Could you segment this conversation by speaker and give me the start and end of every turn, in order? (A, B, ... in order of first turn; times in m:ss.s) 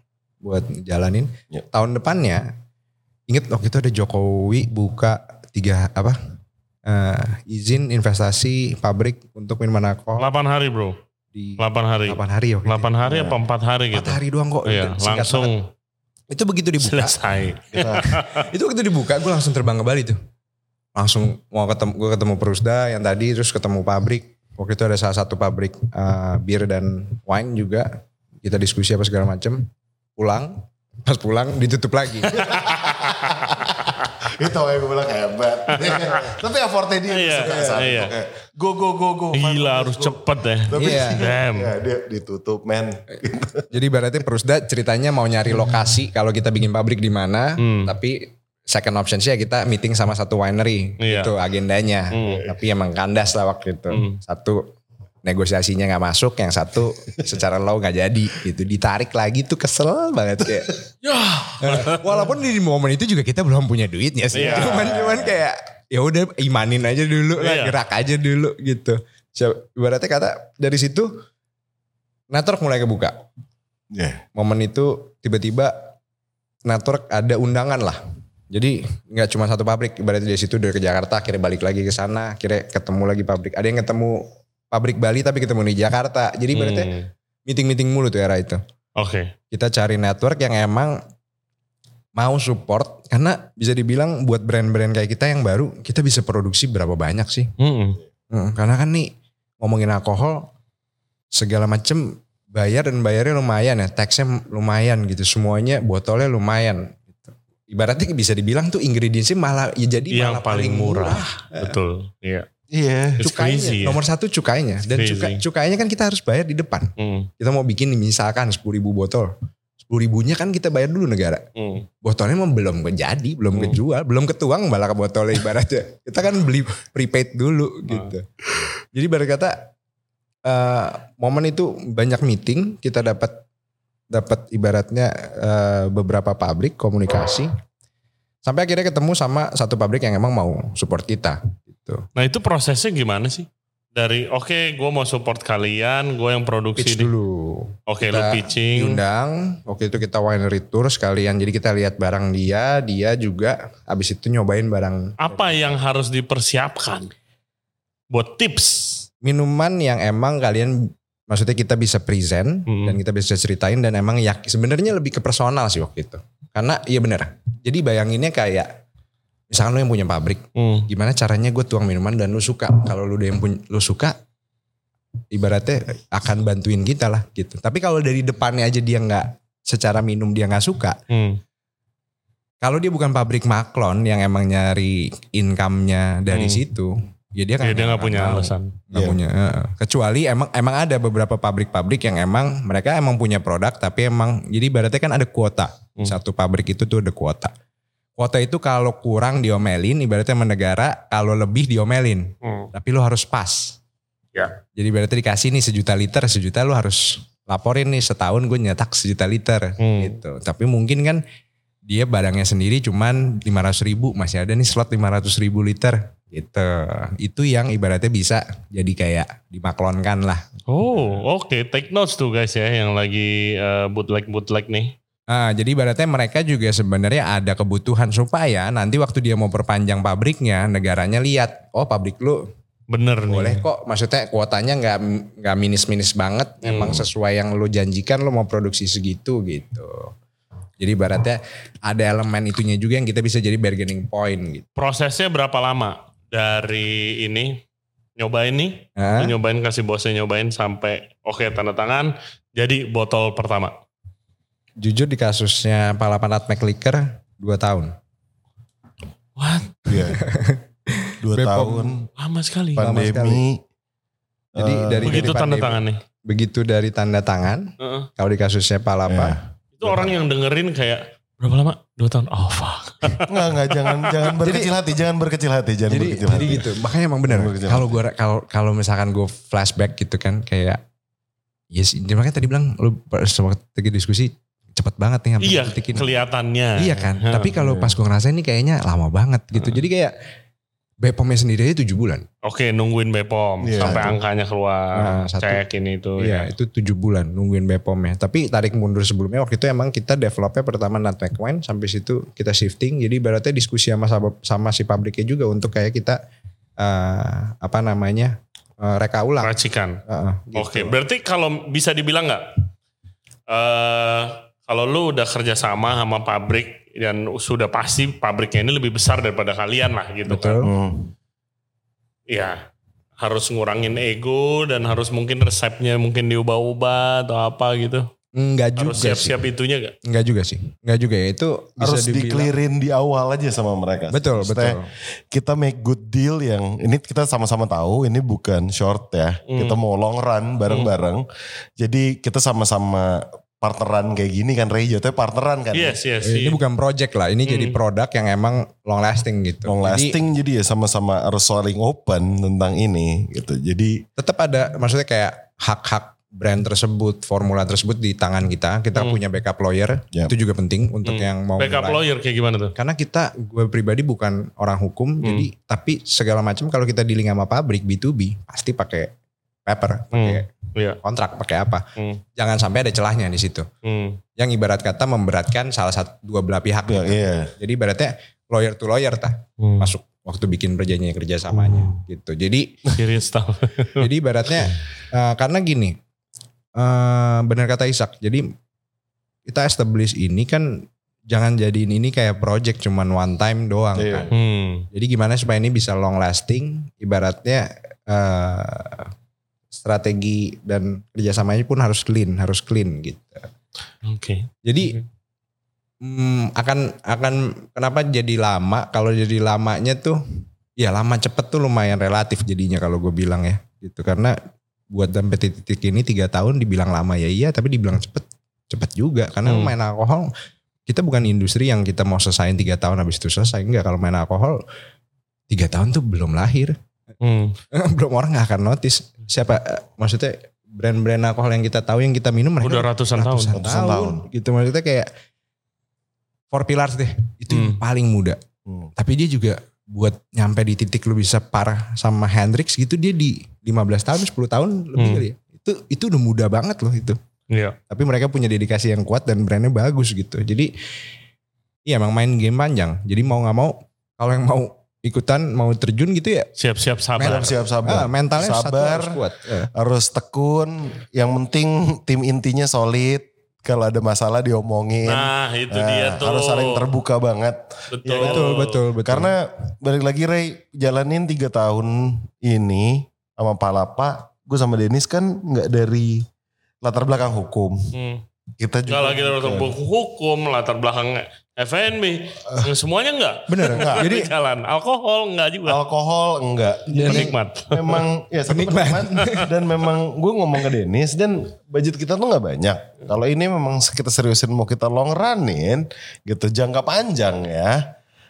0:00.4-0:02.5 A
0:03.3-0:06.2 A
0:06.9-0:10.3 A
0:10.2-0:11.0 B
0:11.3-0:12.9 A
0:11.6-0:15.7 B
0:13.0-0:13.4 C
0:13.9-0:15.5 A
0:16.3-0:17.2 A
0:16.8-0:18.5 B
0:17.7-0:18.1 C
0:18.0-0:20.2 A
0:21.0-0:27.9 A
0:28.4-0:33.0 A
0:32.3-0:43.7 C
0:32.7-0:33.4 B
0:35.7-0:36.4 B
0:37.1-0:38.2 B
0:37.5-0:37.8 A
0:39.3-0:41.7 B
0:40.8-0:41.2 A
0:43.7-0:54.7 A
0:47.6-0:47.9 B
0:51.0-0:51.3 B
0:52.1-0:52.5 B
0:53.9-0:54.2 B
0:55.2-1:00.8 A
1:00.4-1:00.7 C
1:01.0-1:02.1 B
1:01.6-1:11.1 A
1:04.3-1:05.4 C
1:04.4-1:04.9 B
1:07.4-1:07.8 B
1:12.3-1:13.2 A
1:13.9-1:14.2 C
1:14.4-1:15.9 A
1:16.7-1:18.0 A
1:18.5-1:26.9 A
1:26.5-1:27.1 B
1:27.5-1:28.6 A
1:29.0-1:29.3 B
1:29.5-1:31.0 A
1:32.2-1:37.5 A
1:37.6-1:38.0 B
1:38.3-1:40.5 A
1:41.4-1:51.8 A
1:50.1-1:52.5 B
1:52.7-1:53.2 C
1:53.2-1:54.0 B
1:53.2-1:59.3 A
1:54.9-1:55.4 B
1:57.0-1:57.3 B
1:59.8-2:01.4 A
2:01.6-2:01.8 B
2:02.0-2:08.3 A
2:08.9-2:09.7 A
2:10.5-2:13.4 A
2:14.1-2:17.5 A
2:18.5-2:22.1 A
2:22.2-2:27.1 B
2:26.8-2:35.8 A
2:27.9-2:29.0 B
2:35.2-2:37.1 B
2:38.1-2:39.0 B
2:39.2-2:48.7 A
2:42.7-2:43.0 B
2:49.5-2:54.2 A
2:50.6-2:50.9 B
2:55.3-3:01.0 A
3:01.1-3:01.4 B
3:02.6-3:17.5 A
3:06.3-3:06.6 B
3:07.6-3:08.8 B
3:08.9-3:09.2 C
3:18.2-3:23.8 A
3:22.4-3:22.7 B
3:24.7-3:31.2 A
3:29.8-3:30.2 B
3:31.9-3:41.2 A
3:40.7-3:45.0 B
3:45.3-3:52.4 A
3:52.9-3:53.6 B
3:53.3-4:00.1 A
3:56.6-3:57.1 B
4:00.8-4:04.7 A
4:04.8-4:07.6 B
4:08.2-4:13.8 B
4:09.0-4:09.4 A
4:14.8-4:18.0 A
4:19.4-4:20.1 B
4:19.9-4:20.2 C
4:20.1-4:22.1 A
4:21.2-4:22.1 C
4:22.2-4:22.8 B
4:22.7-4:23.6 C
4:22.8-4:23.4 A
4:24.6-4:25.3 C
4:24.6-4:29.4 A
4:25.0-4:26.0 B
4:27.8-4:28.1 B
4:29.1-4:30.2 C
4:29.8-4:34.4 B
4:33.2-4:38.0 C
4:34.4-4:34.7 A
4:35.9-4:40.8 A
4:41.7-4:46.2 A
4:45.4-4:47.5 B
4:46.8-4:50.1 A
4:47.6-4:48.0 C
4:49.6-4:49.8 B
4:51.0-4:52.2 A
4:52.4-4:56.5 B
4:53.6-4:54.2 C
4:53.8-4:54.1 A
4:55.0-4:55.6 A
4:56.2-5:06.2 A
5:06.8-5:11.0 A
5:09.4-5:10.0 B
5:10.6-5:12.6 B
5:13.5-5:20.6 B
5:20.3-5:20.7 A
5:20.6-5:21.1 C
5:22.3-5:22.6 B
5:23.2-5:28.1 B
5:28.4-5:29.4 A
5:28.8-5:30.0 B
5:30.0-5:32.5 A
5:31.8-5:34.8 C
5:34.1-5:34.9 A
5:35.3-5:41.2 C
5:39.5-5:39.8 B
5:41.8-5:46.0 C
5:45.7-5:46.6 B
5:46.2-5:50.2 A
5:47.5-5:47.8 B
5:49.7-5:54.0 C
5:54.2-6:02.0 A
6:01.0-6:02.8 B
6:02.8-6:09.1 A
6:05.2-6:05.5 B
6:09.7-6:10.5 A
6:10.1-6:11.0 B
6:11.0-6:13.7 A
6:12.0-6:12.2 B
6:13.8-6:14.2 B
6:14.4-6:22.8 A
6:16.9-6:17.5 C
6:19.6-6:19.9 B
6:21.5-6:22.0 C
6:23.0-6:24.1 B
6:24.0-6:26.0 A
6:26.8-6:28.5 A
6:29.5-6:34.3 A
6:34.0-6:34.3 C
6:34.3-6:34.9 B
6:34.9-6:39.1 A
6:39.7-6:43.5 A
6:44.0-6:45.0 B
6:44.6-6:45.0 A
6:46.0-6:50.2 A
6:50.8-6:54.4 A
6:54.9-7:00.3 A
6:59.4-6:59.7 B
7:00.9-7:04.6 A
7:05.5-7:06.8 A
7:07.2-7:07.6 B
7:07.7-7:15.1 A
7:12.6-7:13.6 B
7:13.5-7:14.2 C
7:16.5-7:18.4 A
7:17.5-7:17.8 B
7:19.0-7:27.2 A
7:25.0-7:25.2 B
7:27.5-7:27.8 B
7:27.9-7:30.7 A
7:31.9-7:36.5 A
7:36.6-7:37.6 B
7:37.2-7:39.7 A
7:37.2-7:39.2 C
7:39.7-7:56.3 C
7:45.1-7:46.9 B
7:47.9-7:48.8 B
7:48.2-7:49.3 A
7:56.8-7:57.9 C
7:57.9-7:58.2 B
7:58.6-7:59.8 C
7:58.9-8:05.8 B
8:02.5-8:02.7 C
8:03.5-8:04.3 A
8:03.7-8:04.1 C
8:05.7-8:17.9 C
8:06.9-8:07.3 A
8:07.1-8:08.0 B
8:08.5-8:09.5 A
8:09.2-8:09.5 B